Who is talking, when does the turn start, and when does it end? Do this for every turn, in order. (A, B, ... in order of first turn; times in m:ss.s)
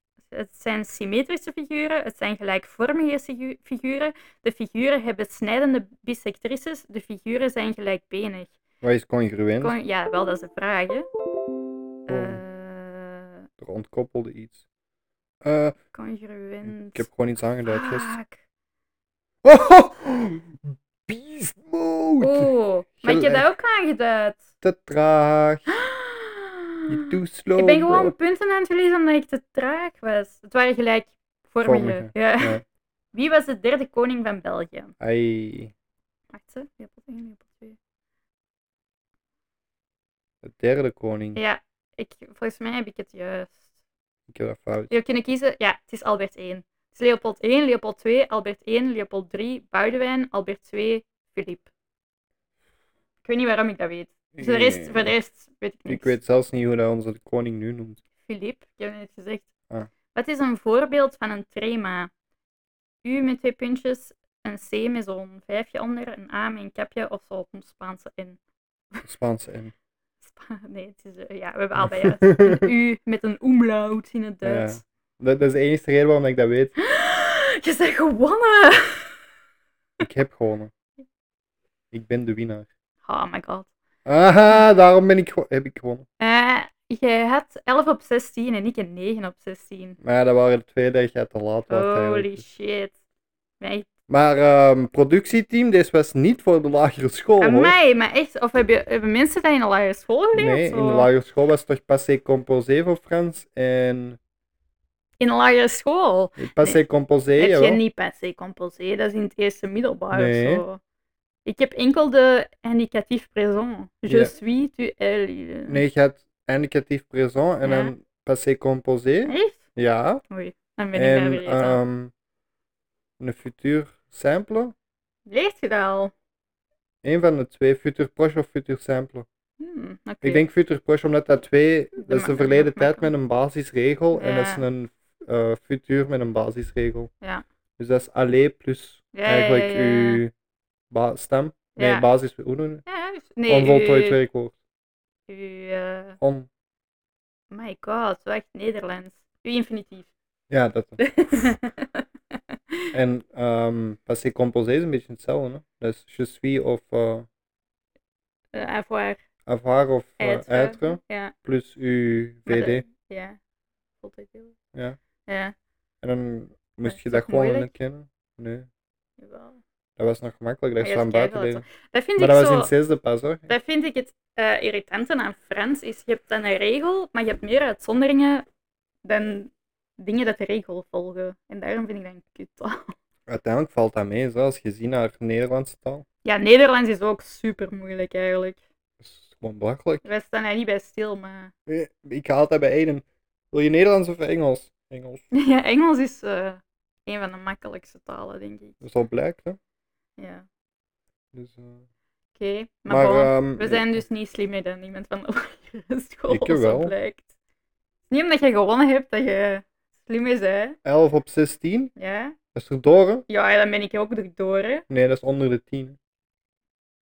0:00.3-0:08.6 A
0:08.8-0:09.7 B
0:09.6-0:11.1 A
0:12.1-0:13.3 A
0:12.1-0:12.4 B
0:13.6-0:14.6 B
0:15.4-0:15.8 B
0:15.9-0:17.0 A
0:16.6-0:18.1 B
0:17.6-0:18.4 A
0:19.4-0:22.5 B
0:22.2-0:24.4 A
0:23.0-0:23.4 B
0:24.6-0:25.7 B
0:25.7-0:26.8 A
0:26.9-0:28.1 B
0:27.6-0:32.6 A
0:31.6-0:32.6 B
0:33.1-0:34.9 A
0:35.0-0:35.7 B
0:36.3-0:37.8 A
0:40.4-0:41.4 B
0:41.3-0:43.7 A
0:44.3-0:44.9 B
0:44.9-0:51.7 A
0:53.2-0:56.2 A
0:54.4-0:55.1 B
0:55.9-0:58.0 B
0:58.2-0:59.5 A
1:00.1-1:02.1 A
1:03.0-1:08.4 A
1:09.0-1:09.7 B
1:10.2-1:14.8 A
1:11.8-1:12.7 B
1:14.4-1:16.7 B
1:16.8-1:19.2 A
1:20.0-1:20.7 B
1:21.9-1:22.7 B
1:23.0-1:23.7 A
1:24.0-1:26.0 B
1:26.2-1:30.0 A
1:30.0-1:32.4 B
1:31.7-1:32.9 A
1:33.6-1:33.9 A
1:34.1-1:37.8 B
1:37.4-1:41.1 A
1:40.3-1:44.2 B
1:45.2-1:46.8 A
1:46.4-1:47.8 B
1:47.3-1:50.8 A
1:50.1-1:50.6 B
1:51.4-1:55.8 A
1:54.0-1:54.3 B
1:55.7-2:00.2 B
1:57.6-1:57.9 A
1:59.2-1:59.6 A
2:00.3-2:01.8 A
2:00.9-2:02.1 B
2:03.2-2:04.7 B
2:05.3-2:06.1 A
2:07.0-2:09.2 B
2:09.6-2:10.4 A
2:10.2-2:17.1 B
2:12.0-2:13.1 A
2:14.1-2:14.6 A
2:17.8-2:20.3 B
2:19.1-2:20.2 A
2:20.9-2:22.8 B
2:21.8-2:22.0 A
2:22.9-2:24.2 A
2:23.5-2:24.5 B
2:25.3-2:26.2 A
2:26.2-2:26.5 B
2:27.5-2:30.1 A
2:30.5-2:31.0 B
2:31.0-2:32.0 A
2:32.9-2:37.3 B
2:38.5-2:39.2 A
2:39.4-2:42.8 B
2:40.2-2:41.3 A
2:42.4-2:43.4 A
2:44.0-2:44.5 A
2:45.3-2:45.5 A
2:46.0-2:48.7 B
2:46.8-2:47.7 A
2:49.2-2:49.6 A
2:50.0-2:51.7 B
2:50.8-2:52.7 A
2:52.2-2:53.5 B
2:53.5-2:58.4 A
2:59.0-3:02.9 A
3:03.3-3:06.0 B
3:06.2-3:08.6 A
3:09.0-3:10.0 B
3:10.0-3:11.5 A
3:11.7-3:15.2 B
3:15.3-3:18.8 A
3:18.8-3:19.6 B
3:20.2-3:20.4 A
3:21.3-3:21.8 B
3:22.4-3:27.2 A
3:22.9-3:24.0 B
3:26.3-3:26.9 B
3:28.1-3:30.8 A
3:30.8-3:31.9 B
3:32.0-3:32.4 A
3:32.5-3:33.2 B
3:33.3-3:34.8 A
3:34.9-3:36.0 B